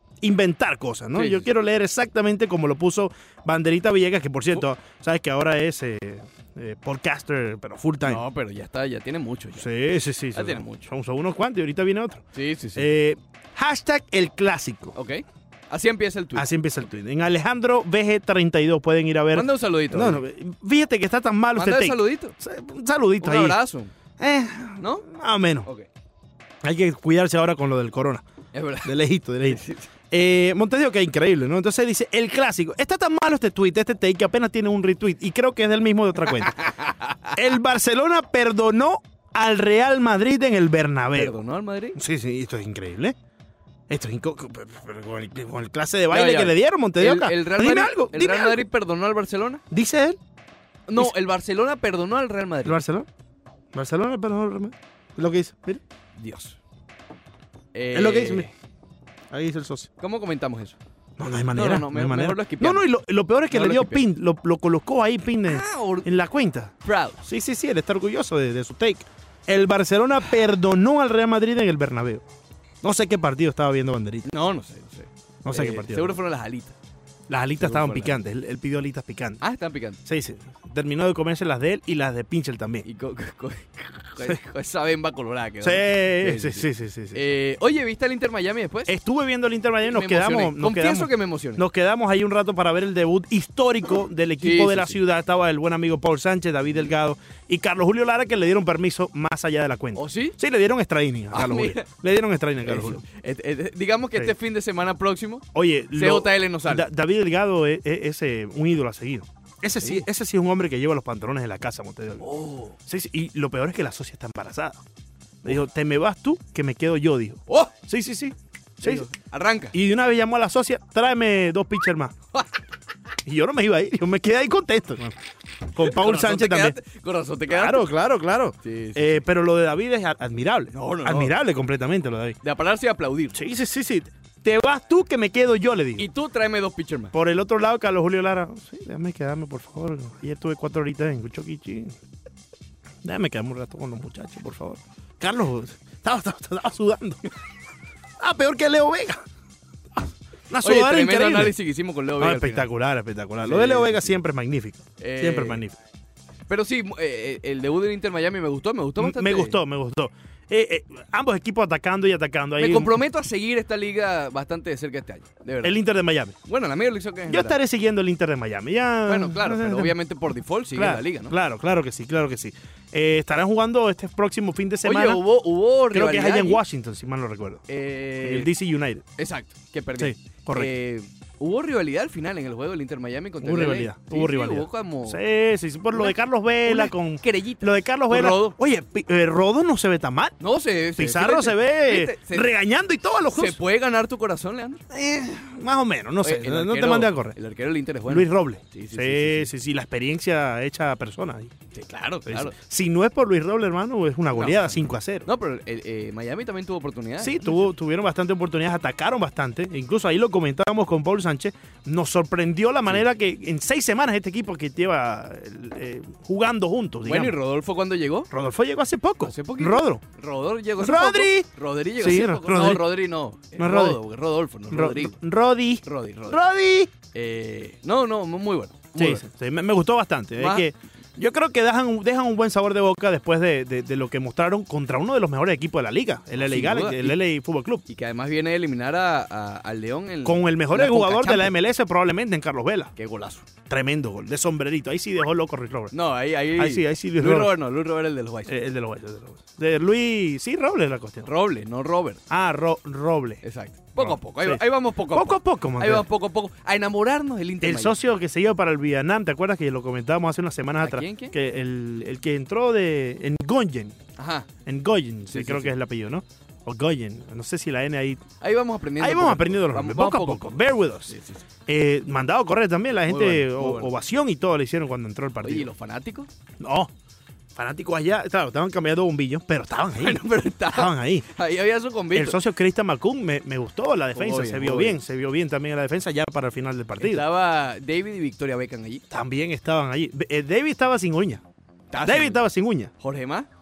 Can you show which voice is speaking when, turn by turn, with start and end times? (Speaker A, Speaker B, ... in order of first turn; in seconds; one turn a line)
Speaker A: 0.2-8.2
Speaker B: 1.1-1.5
Speaker B: 8.0-9.7
Speaker A: 9.6-12.2
Speaker B: 10.3-10.9
Speaker B: 12.3-12.9
Speaker A: 12.8-15.0
Speaker B: 14.9-16.5
Speaker A: 16.4-23.6
Speaker B: 19.3-20.2
Speaker B: 21.6-22.4
Speaker B: 23.2-23.9
Speaker A: 24.2-25.7
Speaker B: 24.8-25.1
Speaker A: 26.6-28.2
Speaker B: 28.5-28.9
Speaker A: 28.8-36.7
Speaker B: 29.4-29.9
Speaker B: 36.5-37.3
Speaker A: 37.3-41.4
Speaker B: 41.1-42.0
Speaker A: 42.0-43.2
Speaker A: 43.9-48.6
Speaker B: 46.1-49.6
Speaker A: 49.7-50.2
Speaker B: 50.9-52.8
Speaker A: 52.6-53.1
Speaker A: 53.7-55.8
Speaker B: 56.2-56.6
Speaker B: 57.7-58.5
Speaker A: 57.9-58.5
Speaker A: 59.3-59.9
Speaker B: 60.0-60.8
Speaker A: 61.2-72.2
Speaker B: 61.5-62.9
Speaker B: 63.5-64.1
Speaker B: 65.5-66.1
Speaker B: 66.8-67.2
Speaker A: 72.8-74.3
Speaker B: 74.2-76.8
Speaker A: 75.4-76.2
Speaker A: 77.3-79.4
Speaker B: 77.6-78.2
Speaker B: 79.4-80.0
Speaker A: 80.0-82.9
Speaker B: 82.8-88.9
Speaker A: 85.6-87.2
Speaker A: 88.9-103.0
Speaker B: 89.9-91.6
Speaker B: 94.4-95.0
Speaker B: 100.0-100.4
Speaker B: 101.3-101.9
Speaker B: 102.7-106.9
Speaker A: 105.5-112.3
Speaker B: 109.8-110.0
Speaker B: 112.2-112.8
Speaker A: 112.8-114.8
Speaker A: 115.4-119.1
Speaker B: 118.8-119.8
Speaker A: 119.7-122.2
Speaker A: 123.3-125.2
Speaker A: 125.7-126.8
Speaker B: 125.8-127.9
Speaker A: 127.5-132.4
Speaker B: 128.6-129.2
Speaker B: 130.7-131.3
Speaker B: 132.4-133.4
Speaker A: 133.3-136.1
Speaker B: 136.0-137.2
Speaker A: 137.1-142.0
Speaker A: 143.0-147.2
Speaker A: 148.2-149.2
Speaker A: 150.0-151.6
Speaker B: 150.6-152.7
Speaker A: 152.2-155.8
Speaker B: 153.4-154.2
Speaker B: 155.0-155.6
Speaker B: 156.5-159.6
Speaker A: 159.0-163.0
Speaker B: 162.6-165.8
Speaker A: 165.6-166.4
Speaker B: 166.4-167.6
Speaker A: 167.3-170.0
Speaker B: 169.1-171.3
Speaker A: 170.7-175.2
Speaker B: 174.8-176.6
Speaker A: 175.9-177.6
Speaker B: 177.7-178.5
Speaker A: 178.2-179.0
Speaker B: 179.2-185.2
Speaker A: 180.0-180.7
Speaker A: 183.4-190.4
Speaker B: 185.9-188.6
Speaker B: 190.4-192.5
Speaker A: 191.0-193.6
Speaker B: 193.3-194.8
Speaker A: 194.9-197.4
Speaker B: 196.2-199.5
Speaker A: 198.1-201.5
Speaker B: 201.7-202.5
Speaker A: 202.3-205.3
Speaker B: 204.3-207.7
Speaker A: 207.2-217.4
Speaker B: 217.0-218.3
Speaker A: 218.3-220.0
Speaker B: 219.2-225.2
Speaker A: 220.8-222.9
Speaker A: 223.6-224.0
Speaker A: 224.7-226.9
Speaker B: 225.8-226.4
Speaker B: 227.1-229.2
Speaker A: 228.9-237.8
Speaker B: 230.4-230.7
Speaker B: 236.4-237.2
Speaker B: 237.9-241.5
Speaker A: 240.2-242.9
Speaker B: 243.0-243.4
Speaker A: 243.7-245.9
Speaker B: 245.9-248.5
Speaker A: 246.6-247.6
Speaker A: 248.5-251.3
Speaker B: 251.2-252.2
Speaker A: 252.3-253.4
Speaker B: 253.4-258.0
Speaker A: 254.0-256.1
Speaker A: 257.6-264.0
Speaker B: 260.8-261.4
Speaker B: 264.2-264.5
Speaker A: 264.7-268.2
Speaker B: 265.3-265.8
Speaker B: 268.4-271.4
Speaker A: 269.0-271.2
Speaker A: 271.7-275.7
Speaker B: 273.1-273.9
Speaker B: 275.4-276.3
Speaker A: 276.6-276.9
Speaker A: 277.6-281.3
Speaker B: 280.0-282.4
Speaker A: 282.1-287.3
Speaker B: 284.1-285.0
Speaker B: 287.0-289.0
Speaker A: 289.1-291.4
Speaker B: 291.9-292.4
Speaker A: 292.0-292.9
Speaker B: 293.0-293.5